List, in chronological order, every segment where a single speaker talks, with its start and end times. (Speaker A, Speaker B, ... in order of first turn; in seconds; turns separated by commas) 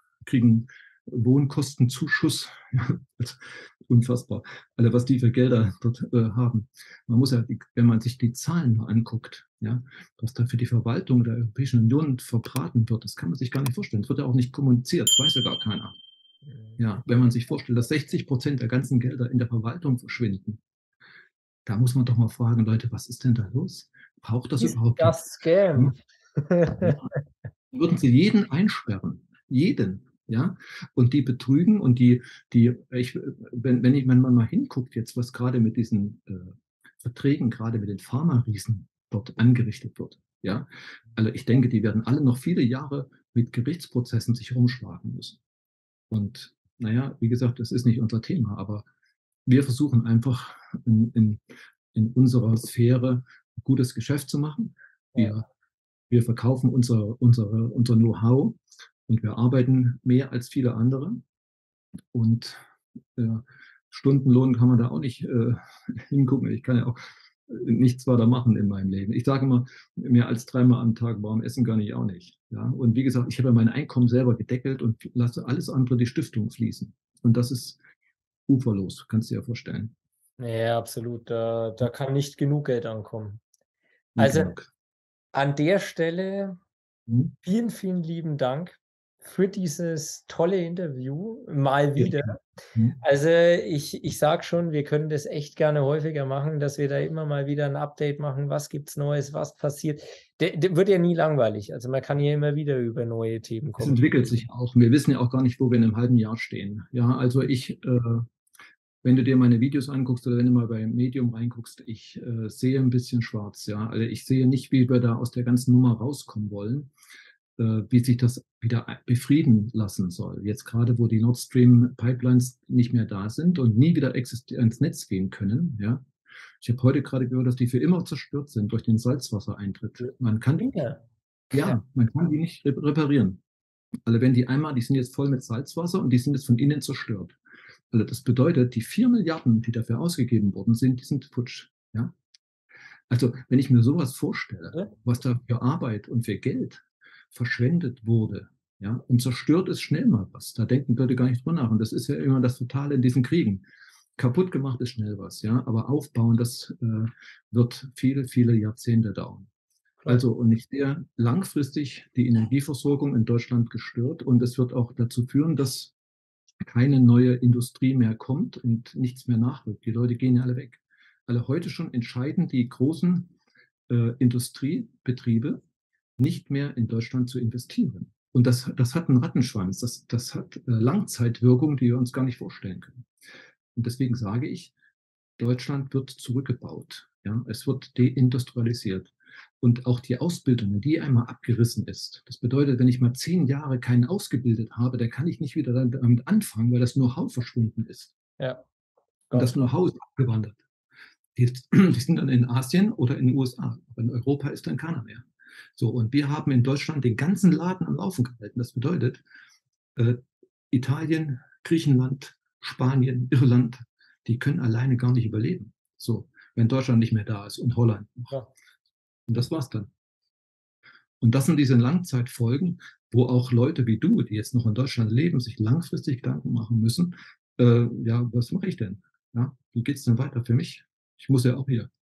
Speaker A: 0.2-16.0, Speaker A: 16.8-20.6, Speaker A: 21.7-25.1, Speaker B: 24.6-27.2, Speaker A: 26.8-27.1, Speaker A: 27.7-45.4, Speaker A: 46.1-48.9, Speaker A: 49.5-51.4, Speaker A: 51.9-55.5, Speaker A: 56.1-61.2, Speaker A: 62.1-62.6, Speaker A: 63.2-77.8, Speaker A: 78.5-79.9, Speaker B: 80.4-83.4, Speaker A: 84.2-84.7, Speaker B: 84.2-84.5, Speaker B: 85.3-86.6, Speaker A: 87.1-87.3, Speaker B: 87.4-92.4, Speaker A: 92.0-93.0, Speaker B: 93.0-104.1, Speaker A: 103.8-108.3, Speaker A: 109.0-116.9, Speaker A: 117.6-126.0, Speaker A: 126.6-130.9, Speaker B: 130.0-131.0, Speaker A: 131.5-133.4, Speaker A: 134.1-137.4, Speaker A: 137.9-142.1, Speaker A: 143.1-153.6, Speaker A: 154.2-159.5, Speaker A: 160.1-165.9, Speaker A: 166.7-173.3, Speaker A: 173.9-175.6, Speaker A: 176.2-183.1, Speaker A: 183.8-184.7, Speaker A: 185.4-198.1, Speaker B: 199.3-199.6, Speaker A: 199.3-200.6, Speaker A: 201.4-205.2, Speaker A: 205.8-209.2, Speaker A: 210.0-218.3, Speaker A: 219.3-219.9, Speaker A: 221.2-231.9